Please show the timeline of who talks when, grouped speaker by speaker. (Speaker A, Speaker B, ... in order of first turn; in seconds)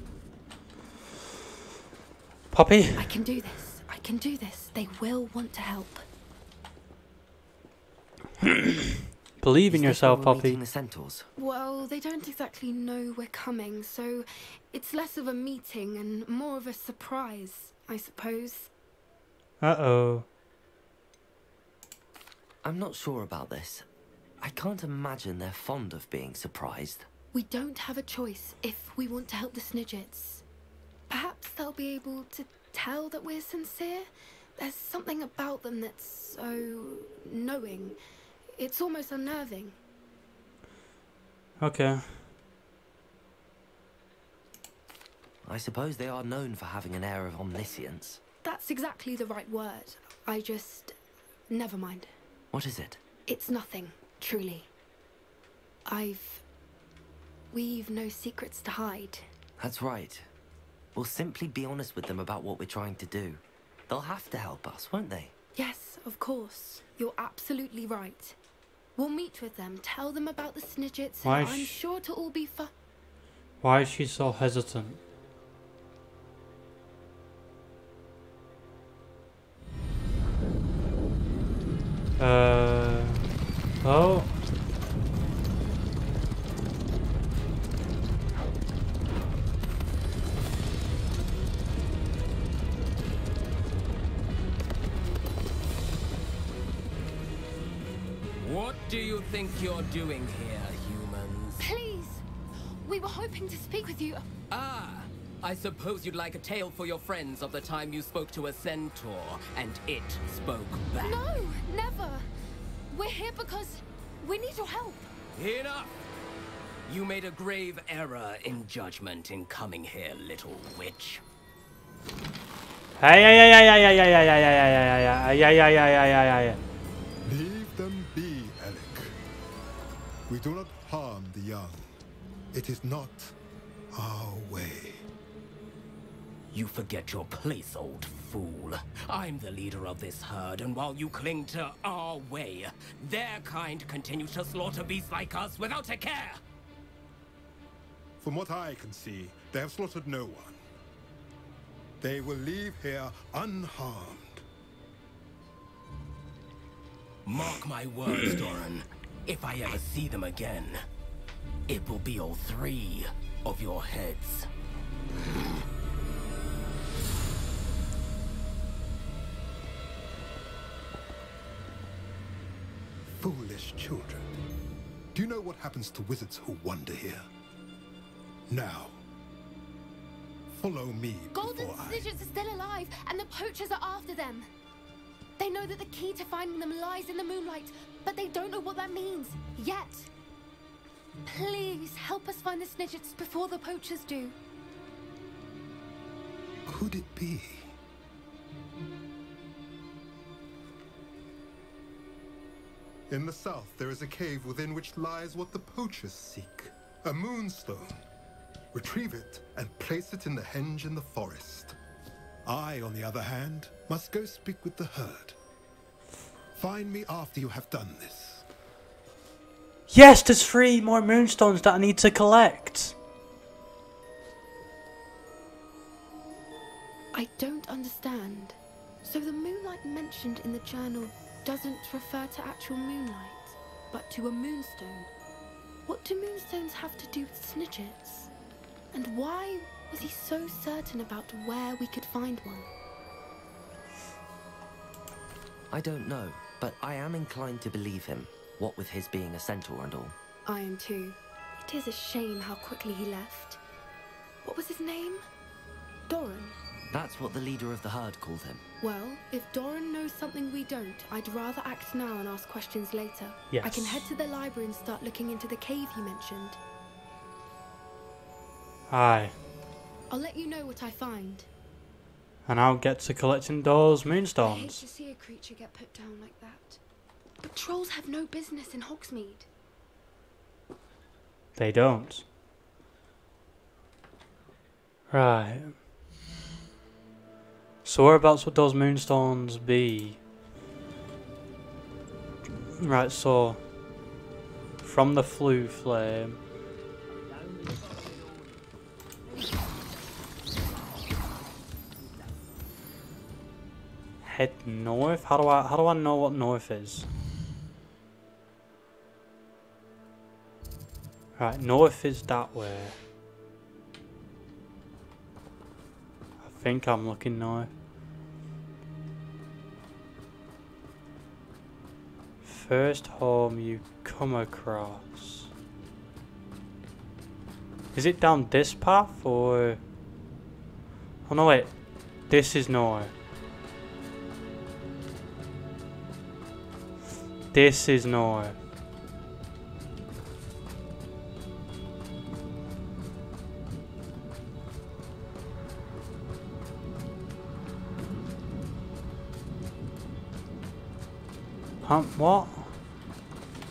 Speaker A: 2.5-3.1, 8.4-8.8, 9.4-10.6, 19.6-20.3, 41.6-42.2, 71.2-71.8, 73.6-75.0, 82.2-83.3, 83.8-84.3, 123.0-126.6, 219.9-222.9, 263.5-264.0, 268.9-269.4, 272.4-274.8, 281.6-282.2, 285.1-285.8, 287.8-290.2, 292.8-293.6, 294.8-296.4, 304.2-307.1, 311.4-313.0, 316.4-317.7, 322.4-325.5, 327.9-329.8, 331.2-331.7, 332.3-333.1, 337.5-338.6, 351.8-352.7
Speaker B: 3.0-6.0, 11.4-18.7, 27.3-30.4, 31.1-38.0, 38.5-39.8, 48.4-51.0, 51.5-52.1, 53.3-54.7, 55.9-56.4, 57.5-59.3, 65.5-68.3, 69.0-72.7, 101.6-102.2, 102.8-104.2, 111.0-112.3, 112.9-115.1, 181.3-184.5, 185.4-190.1, 191.3-194.3, 227.1-235.1, 235.8-238.3, 238.9-242.7, 250.4-253.6, 254.4-255.2, 256.1-256.6, 258.8-266.6, 270.1-271.5, 274.4-276.8, 277.4-279.5
Speaker C: 9.7-11.3, 22.6-23.9, 24.4-27.1, 45.4-48.2, 52.5-53.0, 59.6-60.3, 60.9-65.3, 245.7-250.1, 256.9-258.6
Speaker D: 98.4-101.6, 104.5-111.2, 115.3-116.0, 116.9-121.2, 136.5-146.4, 157.2-160.8, 161.7-164.5
Speaker E: 127.2-129.2, 130.3-131.8, 132.5-133.3, 133.9-135.1, 148.2-150.6, 152.0-154.4, 173.2-174.3, 175.1-177.2, 178.5-179.0, 180.5-182.0, 196.7-197.7, 203.1-208.0, 208.7-211.8, 212.4-215.3, 216.6-218.4